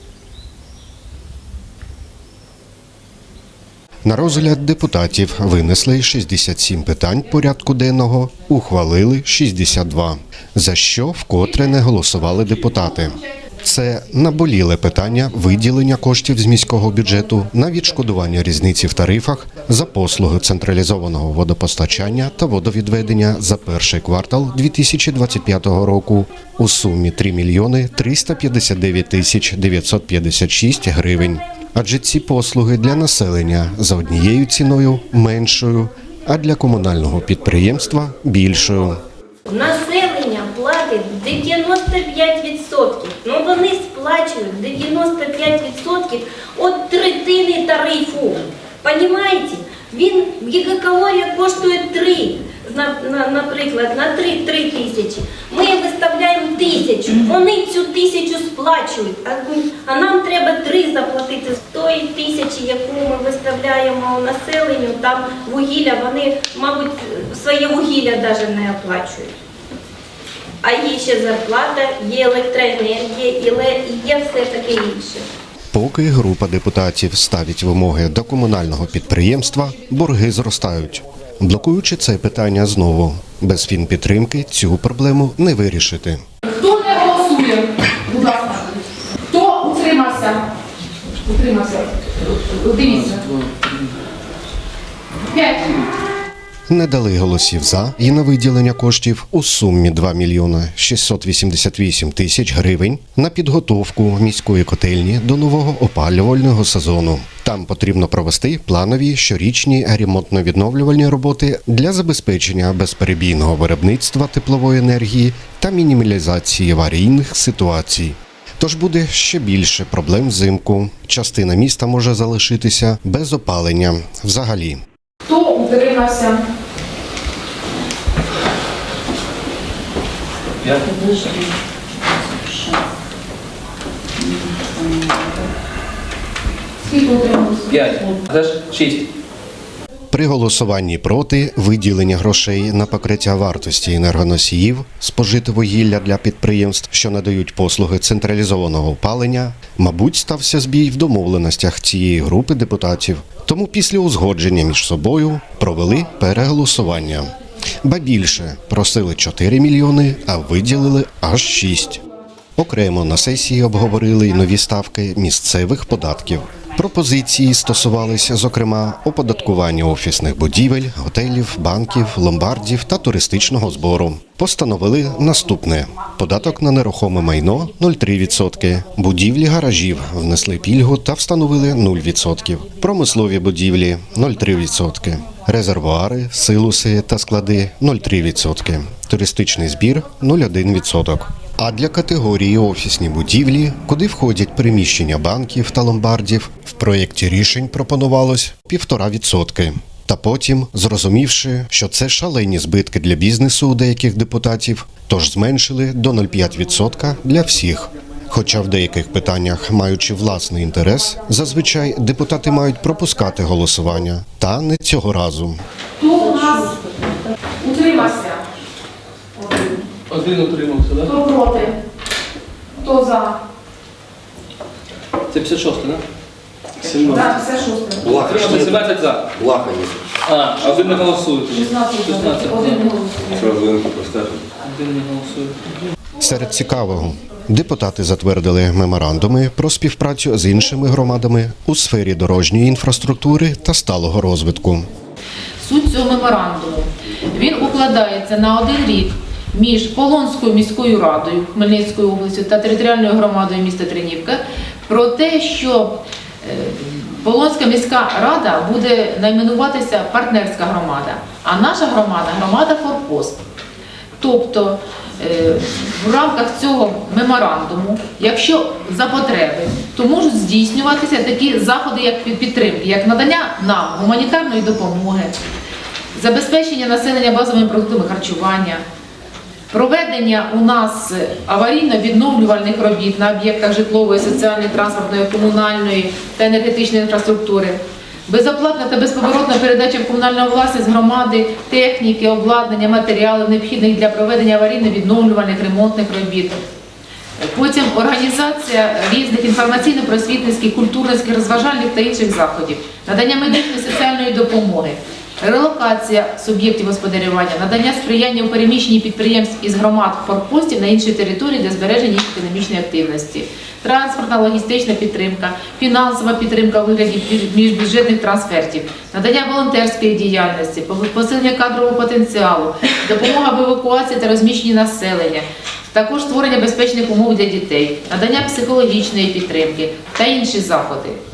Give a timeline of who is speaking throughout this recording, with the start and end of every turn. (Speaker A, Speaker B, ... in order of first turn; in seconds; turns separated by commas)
Speaker A: 4.0-39.0, Speaker B: 39.5-69.3, Speaker B: 70.6-75.3, Speaker A: 75.7-86.2, Speaker C: 86.4-90.5, Speaker C: 91.2-93.3, Speaker D: 93.4-93.7, Speaker C: 95.3-95.9, Speaker A: 96.7-124.8, Speaker C: 125.3-126.4, Speaker D: 130.6-131.0, Speaker C: 136.9-138.1, Speaker D: 137.7-139.1, Speaker A: 140.1-162.0, Speaker A: 162.6-215.6, Speaker C: 216.0-217.0, Speaker C: 217.6-218.4, Speaker C: 219.4-219.8, Speaker D: 220.1-221.1, Speaker C: 221.0-221.8, Speaker C: 222.8-223.4, Speaker D: 225.3-226.0, Speaker D: 226.8-227.3, Speaker C: 226.9-228.4, Speaker E: 228.0-230.1, Speaker D: 228.1-229.5, Speaker D: 230.2-232.8, Speaker C: 230.8-233.5, Speaker E: 233.4-234.5, Speaker D: 234.6-235.6, Speaker A: 236.2-244.9, Speaker C: 245.6-263.4, Speaker C: 264.2-275.4, Speaker C: 276.1-278.8, Speaker C: 279.7-296.6, Speaker C: 297.4-331.2